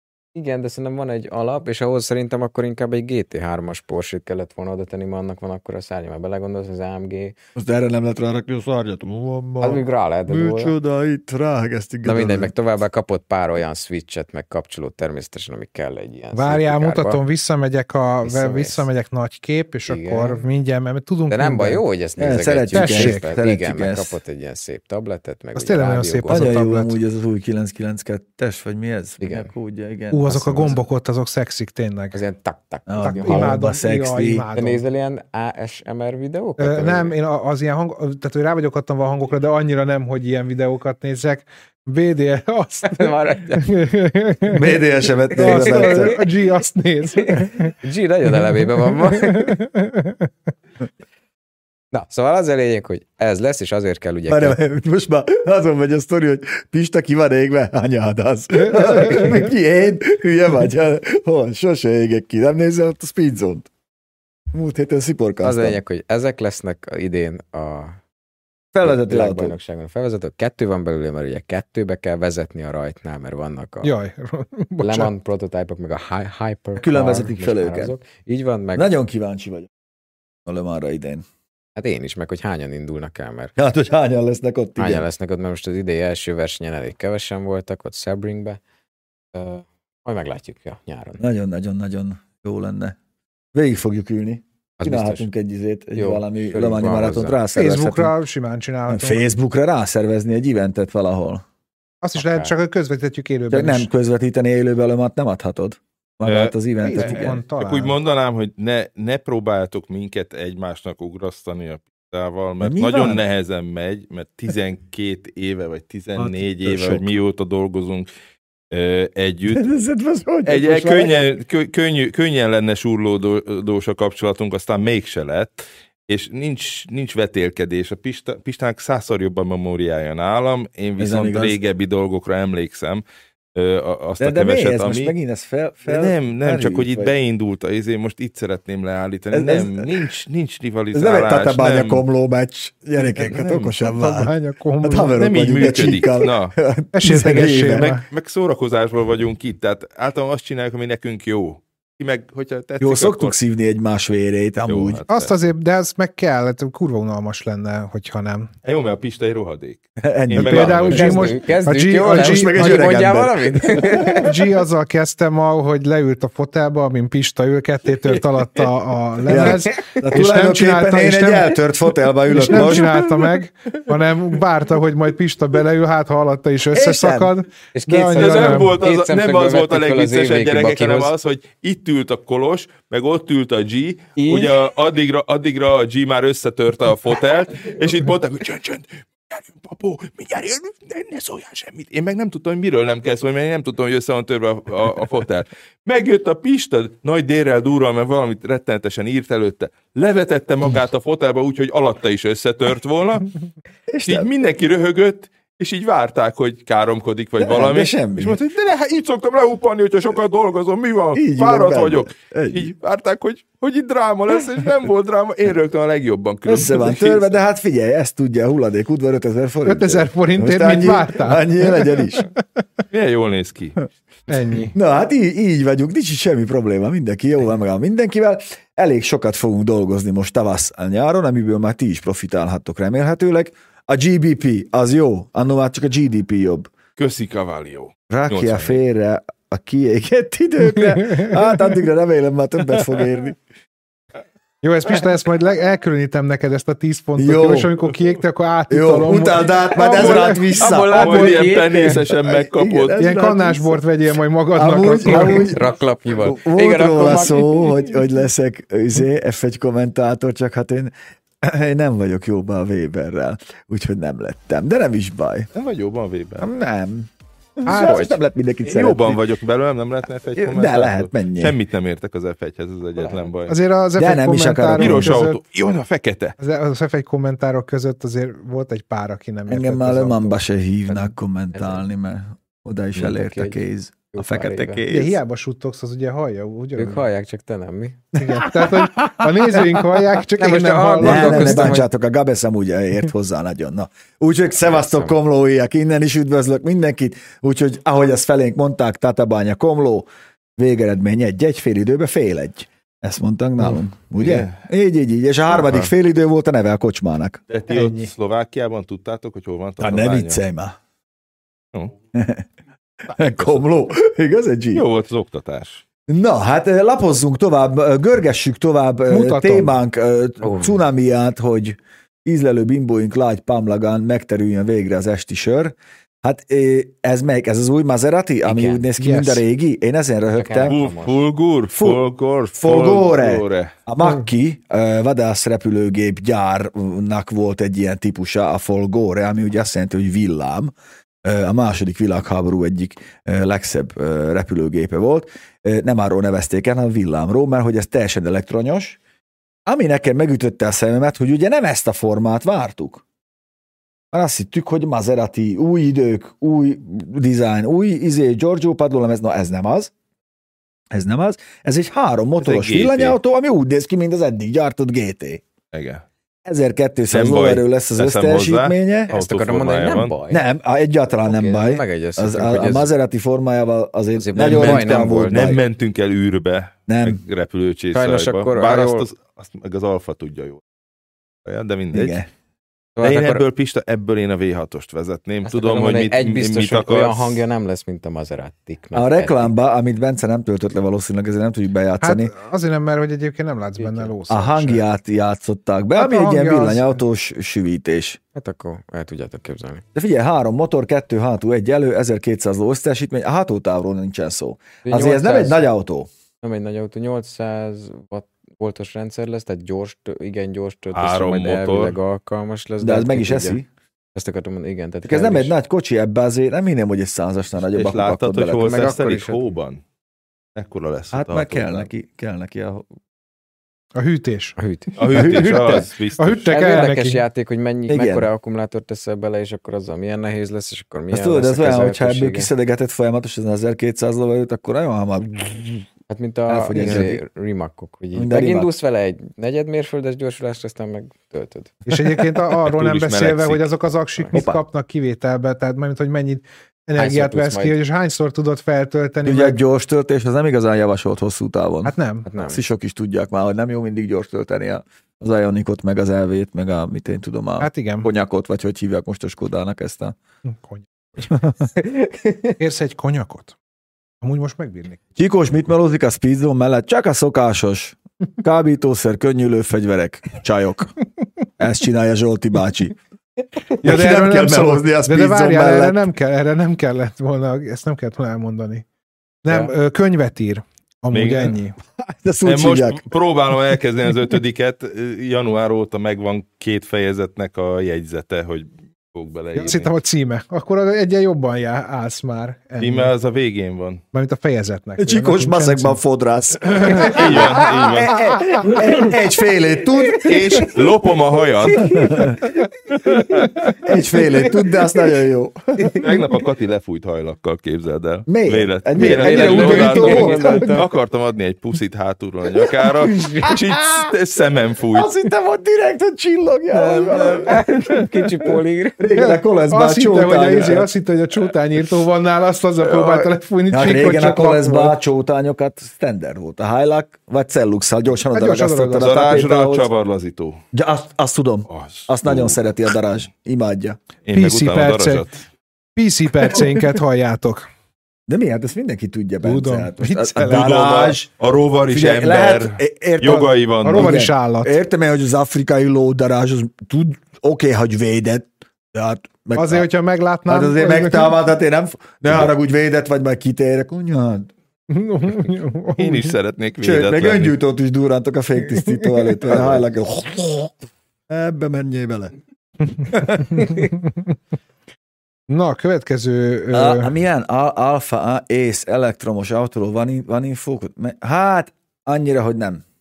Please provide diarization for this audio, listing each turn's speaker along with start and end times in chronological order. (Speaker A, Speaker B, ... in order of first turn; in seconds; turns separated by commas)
Speaker A: 0.3-7.4, Speaker B: 7.6-12.5, Speaker A: 9.6-10.7, Speaker A: 12.1-17.2, Speaker C: 16.3-21.8, Speaker A: 18.2-18.9, Speaker A: 19.9-20.4, Speaker A: 21.3-26.5, Speaker B: 22.2-24.2, Speaker C: 22.7-23.3, Speaker C: 25.6-27.0, Speaker B: 26.3-30.8, Speaker A: 29.2-29.5, Speaker C: 30.1-32.2, Speaker A: 32.1-33.6, Speaker B: 32.9-34.5, Speaker C: 33.0-34.8, Speaker A: 34.5-37.1, Speaker C: 36.6-44.7, Speaker A: 42.8-43.7, Speaker B: 44.5-46.2, Speaker C: 45.3-47.8, Speaker A: 45.4-46.2, Speaker A: 47.1-49.6, Speaker C: 48.3-50.3, Speaker A: 51.9-54.6, Speaker B: 54.3-63.7, Speaker B: 64.5-65.8, Speaker A: 65.4-68.0, Speaker B: 68.7-69.6, Speaker A: 68.8-73.9, Speaker C: 73.8-75.1, Speaker A: 74.8-78.9, Speaker B: 76.8-77.9, Speaker B: 78.8-79.7, Speaker B: 80.5-81.2, Speaker A: 81.8-83.5, Speaker B: 83.6-85.1, Speaker A: 84.8-88.6, Speaker A: 89.3-91.2, Speaker B: 91.2-93.0, Speaker B: 93.5-98.1, Speaker A: 94.8-95.3, Speaker A: 96.0-97.4, Speaker C: 97.5-99.2, Speaker B: 98.9-101.4, Speaker C: 102.0-103.9, Speaker A: 102.2-102.5, Speaker B: 103.5-107.4, Speaker D: 106.2-118.1, Speaker C: 106.8-108.0, Speaker B: 112.6-113.2, Speaker B: 116.2-117.1, Speaker D: 118.7-119.7, Speaker B: 119.5-121.2, Speaker D: 120.5-133.0, Speaker B: 131.0-131.6, Speaker D: 133.6-135.1, Speaker B: 134.2-137.1, Speaker D: 135.9-142.0, Speaker B: 139.3-139.9, Speaker B: 140.9-147.9, Speaker D: 143.2-143.8, Speaker C: 143.8-145.2, Speaker D: 145.1-146.6, Speaker C: 146.9-148.1, Speaker D: 147.7-153.4, Speaker B: 152.8-155.0, Speaker D: 154.7-155.3, Speaker C: 155.1-158.5, Speaker D: 158.6-161.3, Speaker B: 160.0-161.4, Speaker C: 160.3-162.9, Speaker A: 160.9-164.3, Speaker B: 162.0-164.4, Speaker C: 164.1-171.6, Speaker B: 169.3-173.3, Speaker A: 169.3-170.0, Speaker C: 172.3-178.8, Speaker B: 176.7-177.3, Speaker A: 177.7-181.1, Speaker D: 178.1-203.3, Speaker A: 184.2-184.6, Speaker B: 203.9-204.3, Speaker D: 204.1-217.3, Speaker B: 207.4-208.4, Speaker B: 211.2-212.7, Speaker B: 216.5-222.3, Speaker C: 219.7-222.4, Speaker D: 222.9-223.9, Speaker C: 224.3-224.7, Speaker B: 224.7-236.7, Speaker D: 237.0-238.8, Speaker B: 238.1-243.4, Speaker C: 240.6-241.4, Speaker C: 244.6-251.2, Speaker B: 247.2-247.7, Speaker B: 248.7-253.8, Speaker A: 250.0-252.0, Speaker D: 250.9-253.0, Speaker C: 253.0-255.6, Speaker B: 254.5-255.7, Speaker A: 255.1-257.9, Speaker B: 256.2-265.5, Speaker D: 265.5-266.5, Speaker B: 266.4-269.2, Speaker C: 267.7-268.2, Speaker D: 268.6-273.6, Speaker B: 270.4-271.6, Speaker C: 273.5-275.4, Speaker B: 274.0-275.2, Speaker D: 274.8-276.4, Speaker C: 276.4-280.4, Speaker B: 279.5-285.2, Speaker A: 280.9-281.8, Speaker A: 283.0-284.8, Speaker C: 284.9-287.1, Speaker A: 286.8-288.1, Speaker C: 288.1-291.8, Speaker B: 288.4-289.8, Speaker A: 290.4-291.9, Speaker B: 291.0-307.4, Speaker A: 294.6-295.1, Speaker D: 304.2-304.6, Speaker D: 307.5-310.4, Speaker C: 307.7-308.1, Speaker B: 309.8-310.8, Speaker B: 312.1-312.5, Speaker B: 313.1-314.9, Speaker D: 314.7-315.8, Speaker B: 316.1-330.8, Speaker C: 319.1-319.8, Speaker A: 320.4-320.8, Speaker A: 328.4-328.9, Speaker C: 329.0-329.4, Speaker A: 330.3-331.2, Speaker D: 330.7-333.8, Speaker B: 331.7-332.0, Speaker B: 332.6-340.7, Speaker B: 341.2-349.0, Speaker B: 349.7-353.0, Speaker B: 354.1-359.9, Speaker B: 360.9-365.4, Speaker D: 362.4-363.2, Speaker D: 365.7-366.1, Speaker B: 366.4-369.1, Speaker D: 367.1-370.1, Speaker A: 369.1-370.4, Speaker B: 370.3-375.6, Speaker A: 371.2-372.9, Speaker A: 374.2-375.5, Speaker D: 374.4-380.6, Speaker B: 376.9-377.2, Speaker A: 377.9-379.1, Speaker D: 381.4-382.2, Speaker B: 381.9-382.3, Speaker A: 383.0-383.4, Speaker D: 383.0-387.4, Speaker A: 385.4-389.5, Speaker B: 388.9-392.3, Speaker C: 392.0-394.8, Speaker A: 393.8-394.1, Speaker B: 394.3-398.2, Speaker C: 396.0-397.0, Speaker A: 398.4-399.8, Speaker B: 399.9-406.1, Speaker A: 404.9-405.7, Speaker A: 406.4-413.6, Speaker D: 410.9-412.0, Speaker B: 412.8-413.7, Speaker A: 414.1-415.5, Speaker B: 415.1-418.8, Speaker D: 417.6-419.8, Speaker A: 418.6-419.5, Speaker D: 420.6-421.9, Speaker B: 421.1-422.9, Speaker C: 424.0-424.6, Speaker A: 424.6-425.5, Speaker D: 425.0-426.5, Speaker C: 425.1-427.2, Speaker B: 425.1-425.8, Speaker A: 426.5-432.5, Speaker B: 427.9-428.3, Speaker B: 431.1-435.9, Speaker A: 436.1-441.8, Speaker B: 436.5-437.2, Speaker B: 438.1-438.7, Speaker C: 441.9-449.6, Speaker D: 442.6-443.7, Speaker B: 444.3-444.6, Speaker A: 447.0-447.8, Speaker B: 449.2-460.2, Speaker C: 451.9-452.3, Speaker A: 452.3-452.6, Speaker C: 457.6-458.1, Speaker C: 460.5-461.3, Speaker B: 461.3-461.6, Speaker A: 461.8-462.5, Speaker C: 462.6-463.6, Speaker C: 464.2-465.0, Speaker B: 465.2-470.9, Speaker B: 471.6-473.0, Speaker B: 473.6-476.1, Speaker C: 473.8-478.9, Speaker C: 479.4-481.8, Speaker D: 481.1-481.6, Speaker B: 482.0-483.1, Speaker D: 482.4-489.9, Speaker C: 489.6-493.1, Speaker D: 492.8-494.0, Speaker C: 494.1-496.0, Speaker B: 495.0-500.9, Speaker C: 496.7-498.6, Speaker D: 496.9-498.8, Speaker D: 500.2-502.4, Speaker B: 501.7-502.4, Speaker A: 501.8-502.2, Speaker D: 503.1-503.5, Speaker B: 503.8-506.1, Speaker D: 505.9-515.1, Speaker B: 508.3-510.8, Speaker A: 509.0-510.9, Speaker B: 512.6-514.1, Speaker B: 514.9-518.1, Speaker A: 516.7-519.1, Speaker B: 519.0-520.9, Speaker C: 519.2-525.0, Speaker D: 522.9-523.3, Speaker B: 523.7-529.9, Speaker C: 528.3-529.4, Speaker D: 529.0-530.6, Speaker B: 530.7-534.0, Speaker D: 531.7-532.6, Speaker D: 534.2-535.4, Speaker C: 534.3-535.2, Speaker C: 536.0-537.7, Speaker B: 538.3-541.3, Speaker C: 539.4-540.7, Speaker D: 540.4-544.2, Speaker B: 541.9-549.9, Speaker C: 543.2-544.8, Speaker C: 549.6-551.3, Speaker B: 550.5-554.5, Speaker C: 554.9-556.4, Speaker D: 556.0-557.5, Speaker B: 556.8-562.4, Speaker C: 559.2-559.5, Speaker D: 559.5-559.8, Speaker C: 562.9-564.2, Speaker B: 563.1-563.8, Speaker C: 565.5-567.1, Speaker B: 566.7-572.8